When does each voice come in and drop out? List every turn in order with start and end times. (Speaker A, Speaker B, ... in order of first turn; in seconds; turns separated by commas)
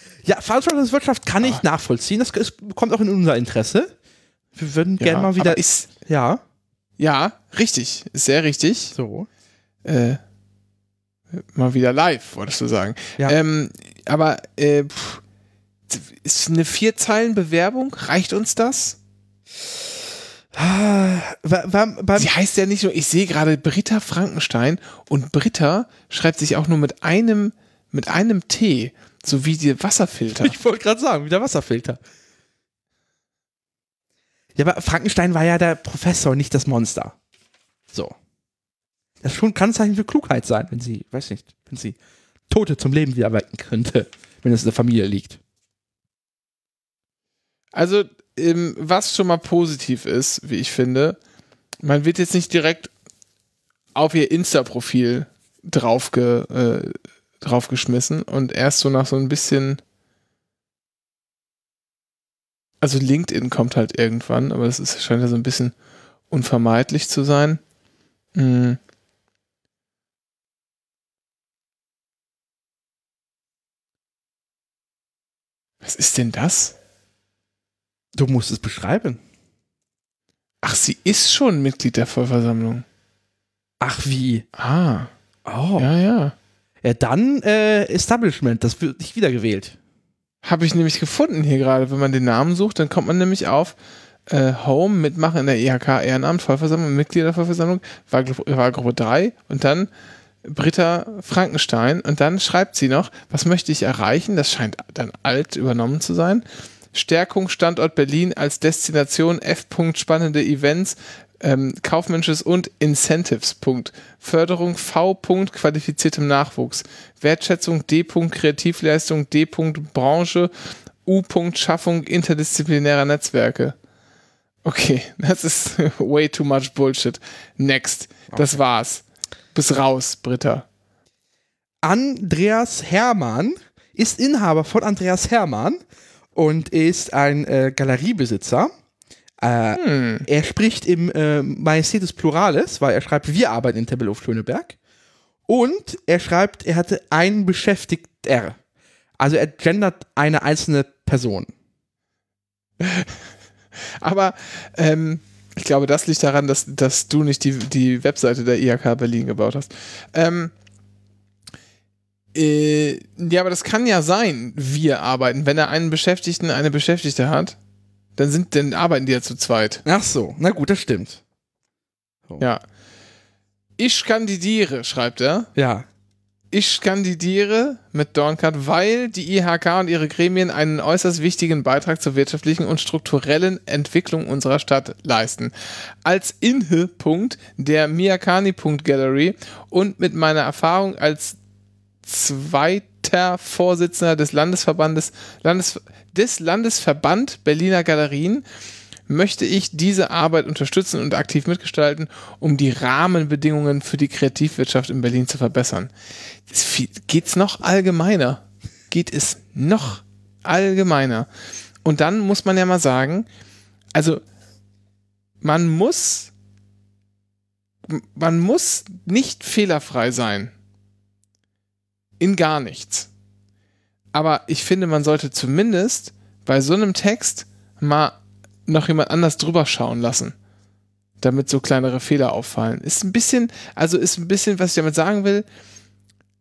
Speaker A: 0.2-3.9, Speaker A: 4.5-6.4, Speaker B: 5.0-5.9, Speaker B: 7.0-8.9, Speaker A: 8.9-9.3, Speaker B: 9.8-10.2, Speaker B: 11.3-15.2, Speaker B: 15.9-19.0, Speaker A: 20.5-22.3, Speaker B: 22.2-30.6, Speaker A: 30.4-32.0, Speaker A: 34.5-37.1, Speaker A: 39.2-42.0, Speaker A: 42.5-45.4, Speaker B: 47.7-51.2, Speaker B: 51.8-52.9, Speaker B: 53.9-59.8, Speaker B: 62.8-65.7, Speaker B: 66.3-67.6, Speaker B: 68.3-68.8, Speaker B: 75.8-76.7, Speaker A: 78.1-79.2, Speaker B: 80.6-82.8, Speaker A: 83.8-84.5, Speaker B: 84.5-85.1, Speaker A: 85.5-85.9, Speaker B: 85.8-86.3, Speaker A: 86.8-89.8, Speaker B: 90.4-93.8, Speaker B: 94.3-99.9, Speaker B: 100.4-123.8, Speaker B: 124.6-130.7, Speaker A: 128.3-128.6, Speaker A: 131.8-135.8, Speaker A: 136.3-138.7, Speaker A: 139.4-144.8, Speaker B: 139.8-140.2, Speaker A: 145.5-148.6, Speaker A: 149.2-151.5, Speaker B: 152.8-160.5, Speaker B: 162.3-167.6, Speaker B: 168.2-169.8, Speaker A: 169.8-171.2, Speaker B: 173.8-175.5, Speaker A: 175.6-175.8, Speaker B: 176.5-191.4, Speaker B: 192.0-198.4, Speaker B: 199.1-205.9, Speaker B: 206.5-211.3, Speaker B: 211.8-213.3, Speaker B: 213.9-214.2, Speaker B: 215.4-216.3, Speaker B: 217.8-220.5, Speaker B: 222.2-223.1, Speaker B: 224.1-230.3, Speaker B: 231.2-235.4